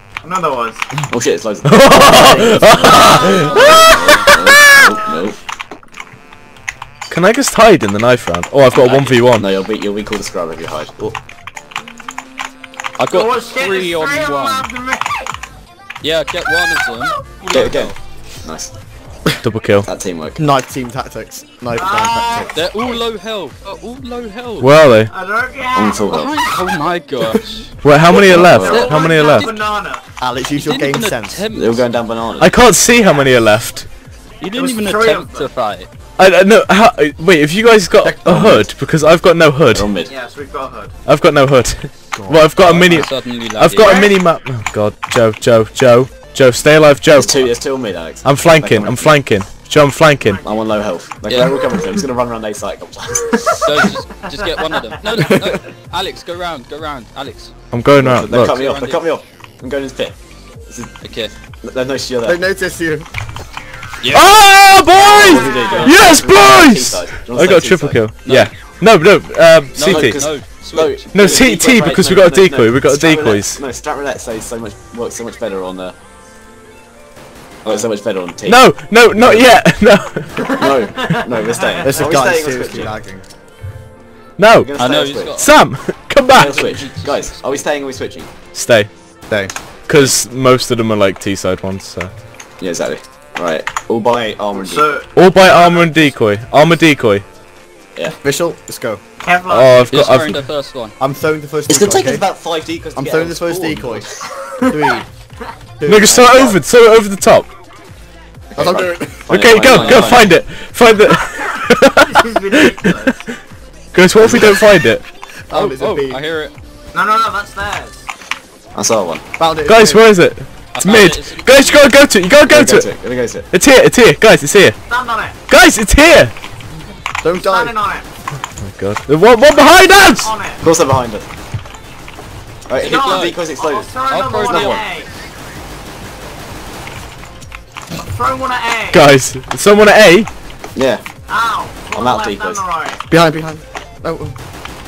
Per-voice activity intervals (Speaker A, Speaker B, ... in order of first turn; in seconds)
Speaker A: 0.2-0.9, 3.0-3.9, 13.0-15.3, 17.3-17.9, 21.7-23.0, 25.1-26.1, 28.6-30.0, 34.5-35.5, 40.1-40.9, 43.8-44.2, 50.2-50.5, 65.0-65.9, 80.5-82.1, 94.5-96.1, 99.2-99.9, 104.2-105.0, 111.2-113.3, 116.9-118.1, 124.9-125.4, 127.3-128.1, 129.9-130.6, 132.8-135.1, 137.9-139.0, 141.3-143.0
Speaker B: 1.1-5.4, 8.8-11.1, 17.5-18.7, 19.8-20.4, 25.7-26.6, 28.1-28.9, 31.5-32.5, 38.2-38.7, 39.7-40.1, 47.1-49.2, 50.4-53.9, 58.0-60.9, 61.6-62.4, 65.0-68.0, 69.8-75.9, 77.6-79.6, 80.6-83.0, 84.6-85.4, 86.3-88.3, 92.6-95.0, 101.7-104.2, 108.5-110.3, 114.2-114.6, 118.7-119.2, 122.5-123.5, 130.6-131.3, 132.7-133.9, 134.5-134.8, 140.7-141.0, 141.9-142.6
Speaker C: 1.6-4.9, 7.1-9.5, 19.4-19.9, 24.6-25.1, 27.8-29.5, 32.4-33.9, 36.2-39.9, 41.0-47.6, 48.2-50.4, 57.7-58.6, 64.1-70.2, 71.1-73.6, 78.4-80.7, 84.4-84.7, 85.3-86.6, 88.5-88.9, 89.9-92.1, 95.1-97.2, 99.5-100.4, 105.9-107.5, 109.3-113.1, 113.9-115.0, 119.7-124.8, 125.5-126.3, 128.6-130.3, 138.9-140.3
Speaker D: 3.3-4.2, 8.7-9.2, 13.0-14.7, 16.0-17.2, 22.5-24.7, 26.1-27.8, 28.6-29.6, 30.6-31.9, 34.4-35.9, 42.6-44.0, 51.3-51.6, 53.6-57.5, 58.4-59.0, 61.0-61.3, 64.0-64.4, 65.3-65.6, 68.2-68.5, 69.7-71.4, 84.8-85.5, 86.4-87.7, 99.9-100.9, 109.7-110.3, 115.5-116.5, 120.7-122.0, 132.8-133.4, 134.1-135.0
Speaker E: 20.4-22.5, 30.2-31.4, 42.1-42.5, 55.1-55.5, 62.2-63.1, 81.8-83.2, 98.2-99.0, 101.0-102.2, 102.9-104.1, 104.7-105.0, 105.8-106.6, 108.6-109.2, 115.5-116.2, 119.4-120.1, 127.2-127.8, 143.1-144.4